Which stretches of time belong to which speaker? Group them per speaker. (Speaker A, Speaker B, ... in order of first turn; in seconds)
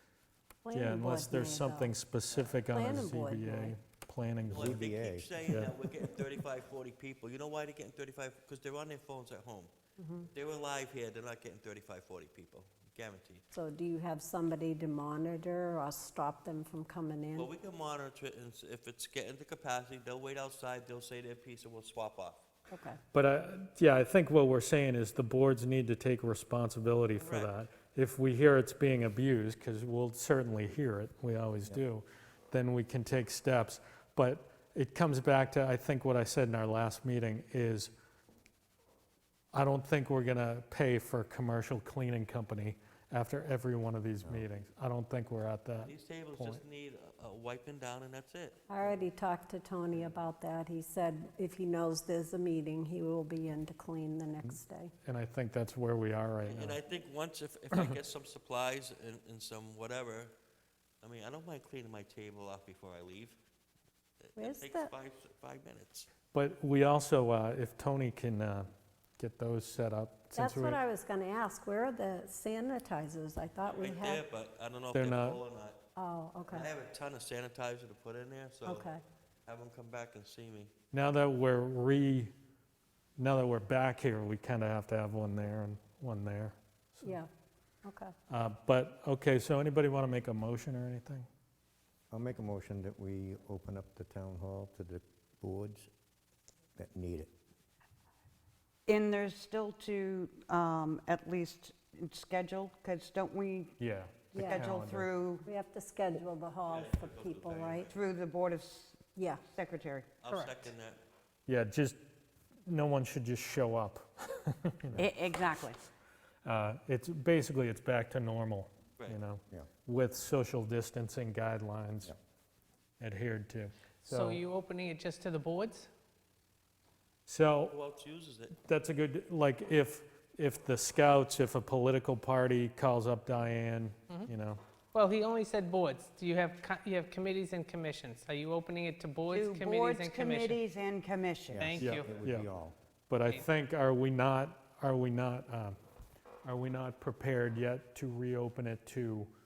Speaker A: 0.6-2.0, 2.6-3.8, 10.0-10.3, 13.5-17.5, 22.7-23.0, 48.7-54.9, 64.4-64.9, 70.3-74.2, 76.0-76.7, 78.6-79.0, 87.0-87.3, 87.8-88.1, 104.3-107.9, 109.1-109.4
Speaker B: 0.7-4.8, 5.5-5.7, 23.1-37.9, 39.5-46.6, 55.0-56.8, 66.3-68.7, 69.2-70.8, 74.9-75.4, 80.9-82.3, 83.2-87.2, 88.3-91.3, 103.8-105.1, 111.5-112.0, 112.7-115.0, 116.4-122.1, 123.0-124.4, 127.3-127.7, 128.6-134.6, 141.8-142.5, 143.1-145.8, 146.4-149.3
Speaker C: 4.5-9.7, 10.2-13.4, 17.3-22.4, 27.1-27.5, 45.8-48.8, 56.5-60.3, 61.0-63.4, 64.2-66.1, 73.7-75.8, 76.4-78.9, 79.5-80.7, 106.7-107.9, 110.2-111.0, 127.7-128.6
Speaker D: 4.5-5.7, 92.1-95.9, 96.8-97.3, 141.5-142.7
Speaker E: 98.8-103.8, 104.3-105.5, 107.9-110.1, 115.0-115.8, 139.3-141.7
Speaker F: 110.2-110.7, 124.0-125.9, 134.9-140.6, 141.6-142.1